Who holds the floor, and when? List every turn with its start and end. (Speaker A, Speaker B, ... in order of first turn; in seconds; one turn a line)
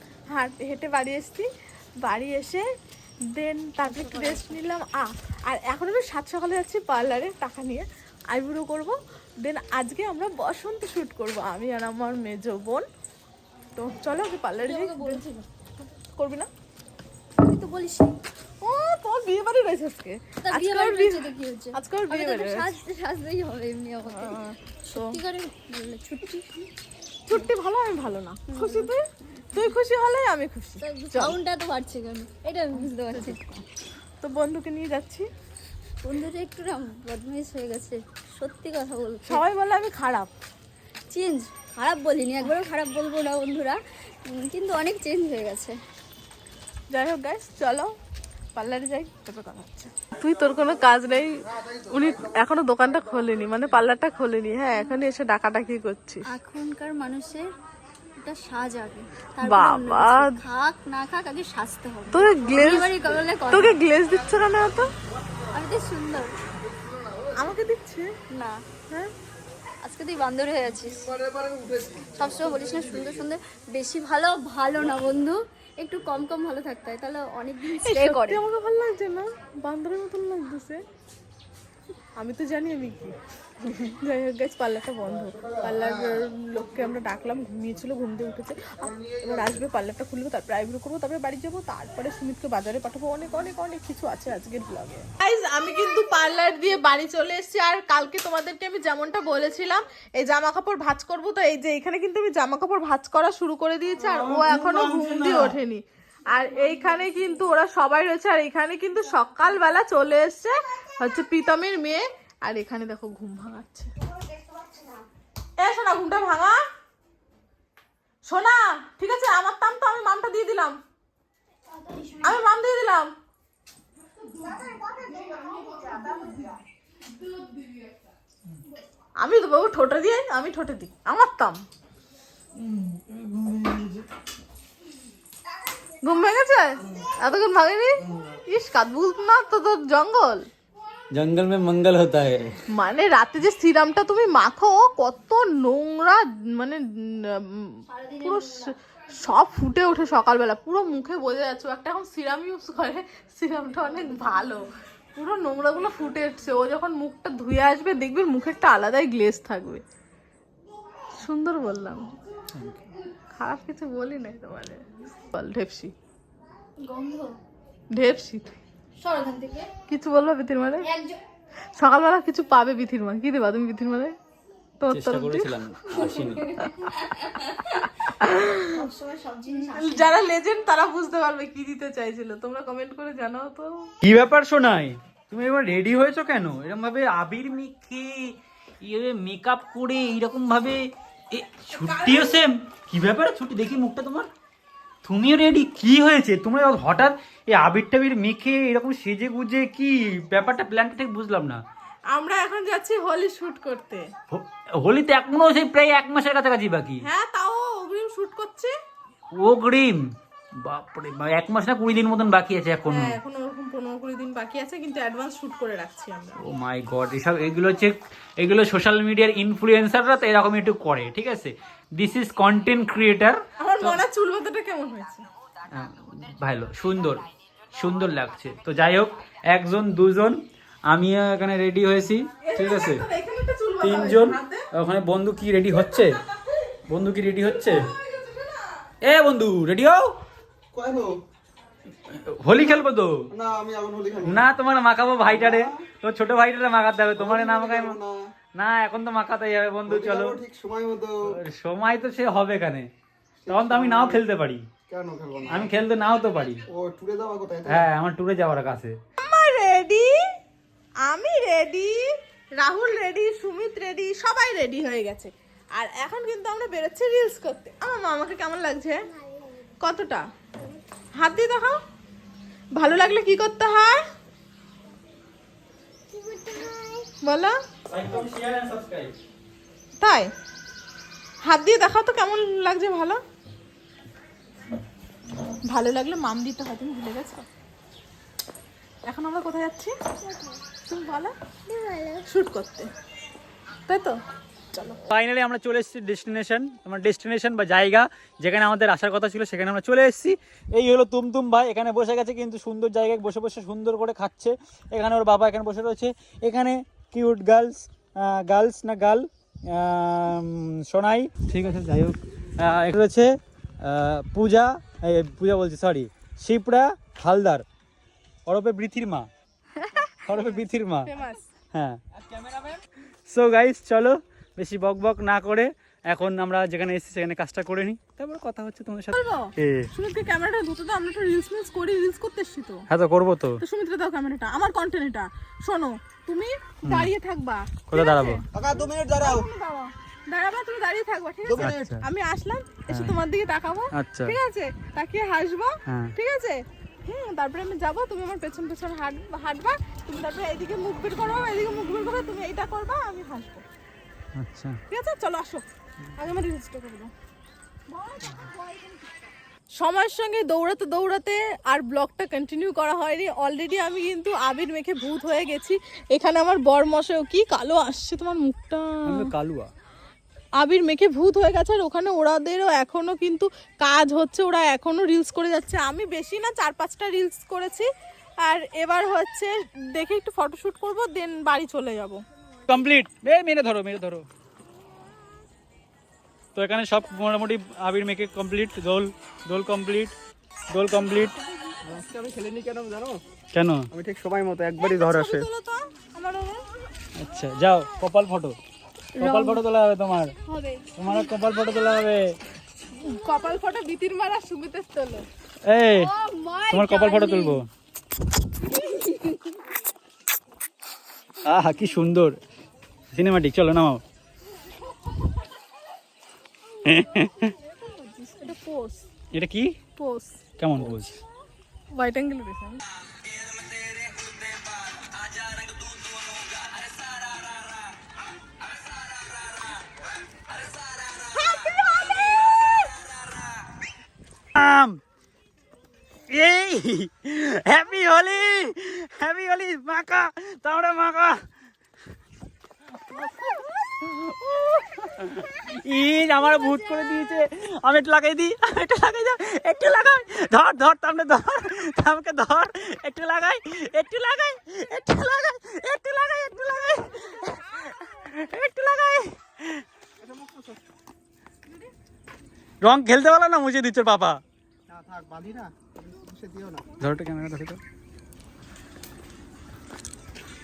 Speaker A: 0.3-1.5
Speaker A: 2.0-2.7
Speaker A: 3.3-12.8
Speaker B: 3.9-4.5
Speaker A: 13.8-15.2
Speaker B: 14.6-15.5
Speaker A: 15.8-16.5
Speaker B: 17.4-18.2
Speaker A: 18.6-22.7
Speaker B: 20.4-26.5
Speaker A: 24.1-25.2
Speaker A: 27.3-31.4
Speaker B: 28.5-28.9
Speaker B: 30.8-33.4
Speaker A: 32.8-33.6
Speaker A: 34.2-35.3
Speaker B: 36.0-39.4
Speaker A: 39.3-40.3
Speaker B: 41.1-45.8
Speaker A: 46.9-47.9
Speaker A: 48.6-56.3
Speaker B: 56.3-57.5
Speaker B: 58.2-63.8
Speaker A: 59.4-60.4
Speaker A: 62.1-64.9
Speaker B: 65.5-66.3
Speaker A: 67.4-68.1
Speaker B: 68.3-68.6
Speaker B: 69.8-71.1
Speaker C: 71.3-72.1
Speaker B: 72.1-78.4
Speaker A: 77.7-80.8
Speaker A: 82.2-83.2
Speaker A: 83.7-113.9
Speaker C: 89.2-89.6
Speaker D: 104.0-105.6
Speaker A: 115.6-116.6
Speaker A: 118.2-120.8
Speaker B: 121.8-122.4
Speaker A: 122.2-123.1
Speaker B: 124.5-126.4
Speaker A: 129.2-131.6
Speaker A: 136.0-140.5
Speaker D: 141.1-142.5
Speaker A: 142.7-159.8
Speaker B: 147.9-148.7
Speaker A: 161.2-162.1
Speaker D: 162.5-162.9
Speaker A: 163.3-165.9
Speaker B: 166.8-167.4
Speaker A: 167.9-168.6
Speaker B: 169.0-169.7
Speaker A: 169.9-170.9
Speaker B: 170.8-171.2
Speaker A: 171.8-174.2
Speaker A: 174.8-175.5
Speaker D: 174.9-176.6
Speaker B: 176.0-177.7
Speaker A: 178.2-178.7
Speaker B: 178.5-180.1
Speaker A: 179.7-183.9
Speaker D: 184.0-194.3
Speaker A: 191.7-192.4
Speaker D: 195.1-201.6
Speaker A: 202.1-204.1
Speaker D: 204.3-207.1
Speaker A: 207.0-208.7
Speaker D: 209.3-210.1
Speaker D: 210.6-213.2
Speaker A: 212.9-216.4
Speaker D: 216.4-224.0
Speaker A: 223.6-225.3
Speaker D: 225.7-233.0
Speaker A: 232.4-234.7
Speaker D: 233.8-236.2
Speaker A: 235.9-236.7
Speaker D: 236.9-237.9
Speaker A: 237.7-238.8
Speaker D: 239.0-240.2
Speaker C: 240.7-241.2
Speaker D: 242.1-243.3
Speaker C: 243.3-244.4
Speaker D: 244.2-248.0
Speaker C: 245.3-245.8
Speaker C: 247.2-248.3
Speaker D: 248.6-250.4
Speaker C: 249.9-251.3
Speaker D: 251.3-252.9
Speaker C: 253.5-254.2
Speaker D: 253.5-254.7
Speaker C: 254.9-255.7
Speaker D: 255.5-256.6
Speaker C: 256.7-257.9
Speaker D: 257.7-259.0
Speaker A: 259.2-260.1
Speaker A: 261.1-269.0
Speaker A: 269.8-270.2
Speaker A: 271.2-271.8
Speaker A: 272.8-274.0
Speaker B: 276.1-277.1
Speaker A: 277.2-277.6
Speaker D: 277.9-279.1
Speaker A: 280.0-280.3
Speaker A: 281.4-283.2
Speaker A: 285.7-287.5
Speaker A: 289.1-290.0
Speaker B: 290.2-290.6
Speaker A: 290.8-291.3
Speaker B: 291.7-292.2
Speaker A: 292.3-292.9
Speaker A: 293.9-294.2
Speaker A: 294.7-295.0
Speaker D: 295.1-317.6
Speaker D: 318.5-319.3
Speaker A: 320.0-321.5
Speaker D: 320.1-321.1
Speaker D: 321.7-322.0
Speaker D: 322.7-329.9
Speaker A: 329.1-332.9
Speaker D: 332.9-333.6
Speaker A: 333.6-353.6
Speaker D: 337.9-338.4
Speaker C: 338.5-339.5
Speaker C: 341.5-341.9
Speaker D: 341.6-342.0
Speaker D: 343.9-344.4
Speaker D: 345.9-346.1
Speaker D: 354.4-354.8
Speaker A: 354.9-357.1
Speaker B: 358.5-358.8
Speaker A: 359.8-369.3
Speaker D: 369.1-369.7
Speaker A: 370.6-377.9
Speaker A: 378.4-382.2
Speaker D: 382.7-384.2
Speaker D: 386.6-390.1
Speaker D: 390.7-391.4
Speaker C: 391.8-393.2
Speaker D: 393.5-393.9
Speaker C: 393.9-395.5
Speaker A: 394.8-396.6
Speaker D: 397.2-398.6
Speaker D: 399.2-400.4
Speaker A: 400.5-400.9
Speaker D: 401.0-402.4
Speaker A: 402.9-405.3
Speaker D: 405.6-406.1
Speaker A: 406.0-407.6
Speaker D: 406.7-407.7
Speaker A: 408.9-409.2
Speaker D: 411.4-412.4
Speaker D: 413.1-414.0
Speaker D: 416.9-417.5
Speaker A: 417.7-419.1
Speaker D: 419.3-419.8
Speaker A: 420.0-420.4
Speaker D: 420.6-421.2
Speaker A: 421.9-422.8
Speaker D: 423.5-424.6
Speaker D: 425.3-427.2
Speaker A: 431.3-432.8
Speaker D: 434.5-435.0
Speaker D: 436.3-441.4
Speaker D: 443.1-459.8
Speaker C: 460.2-460.8
Speaker D: 462.8-464.4
Speaker C: 464.9-466.9
Speaker D: 467.0-467.8